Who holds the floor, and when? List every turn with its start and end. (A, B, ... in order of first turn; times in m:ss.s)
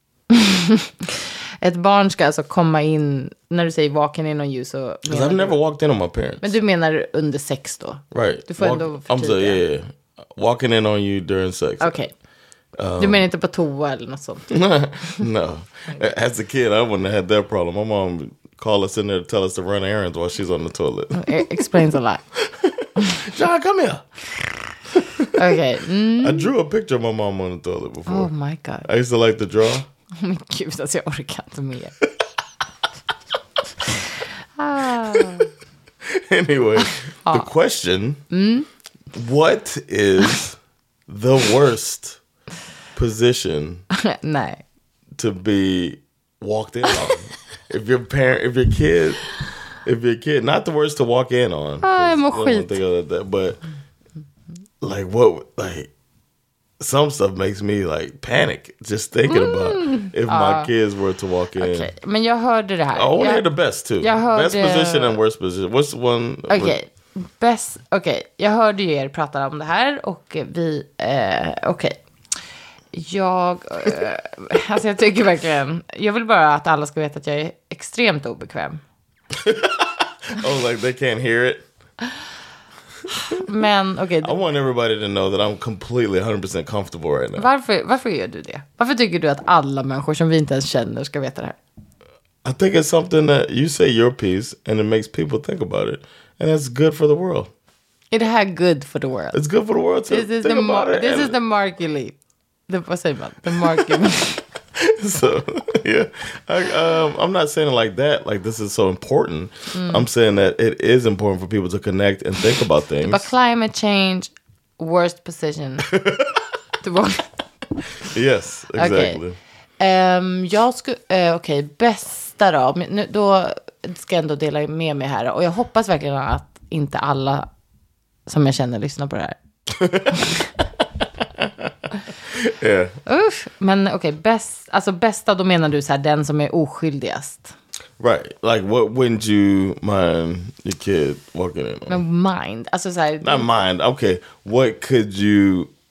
0:00.3-0:05.6 A
0:05.1-0:06.5 B
0:06.4-0:09.6 A
0:08.1-0:11.9 B
0:11.8-0:12.1 A
0:12.8-0:13.2 B
0:13.0-0:14.5 A
0:14.5-0:21.7 B
0:21.1-0:22.2 A
0:22.4-0:24.3 B
0:24.9-0:25.4 B
0:25.4-0:26.5 A
0:26.2-0:28.3 B
0:28.1-0:28.9 A
0:28.8-0:29.9 B
0:30.2-0:31.9 A
0:34.6-0:35.5 A
0:34.9-0:35.3 B
0:36.1-0:38.2 B
0:38.3-0:38.7 A
0:39.1-0:42.2 B
0:42.9-0:43.8 B
0:43.9-0:44.6 A
0:45.2-0:49.3 B
0:49.8-0:53.6 B
0:51.8-0:52.8 A
0:54.8-0:55.9 B
0:56.8-1:01.9 B
0:59.3-1:00.7 A
1:01.6-1:03.4 A
1:02.9-1:06.8 B
1:04.0-1:05.2 A
1:06.5-1:12.0 A
1:12.9-1:18.8 A
1:19.4-1:21.6 B
1:23.3-1:24.4 A
1:24.2-1:27.5 B
1:27.4-1:31.6 A
1:32.4-1:37.5 B
1:38.1-1:39.4 A
1:39.3-1:41.4 B
1:40.1-1:42.2 A
1:42.7-1:44.4 A
1:43.5-1:44.0 B
1:44.8-1:53.3 B
1:49.7-1:50.0 A
1:53.0-1:55.9 A
1:56.0-1:56.4 B
1:56.8-1:57.3 A
1:58.1-1:59.4 B
1:58.8-1:59.2 A
1:59.8-2:07.5 A
2:08.3-2:09.4 A
2:09.7-2:10.4 B
2:11.4-2:11.7 B
2:12.2-2:13.0 B
2:13.0-2:17.5 A
2:18.0-2:22.0 B
2:21.9-2:23.5 A
2:23.2-2:25.7 B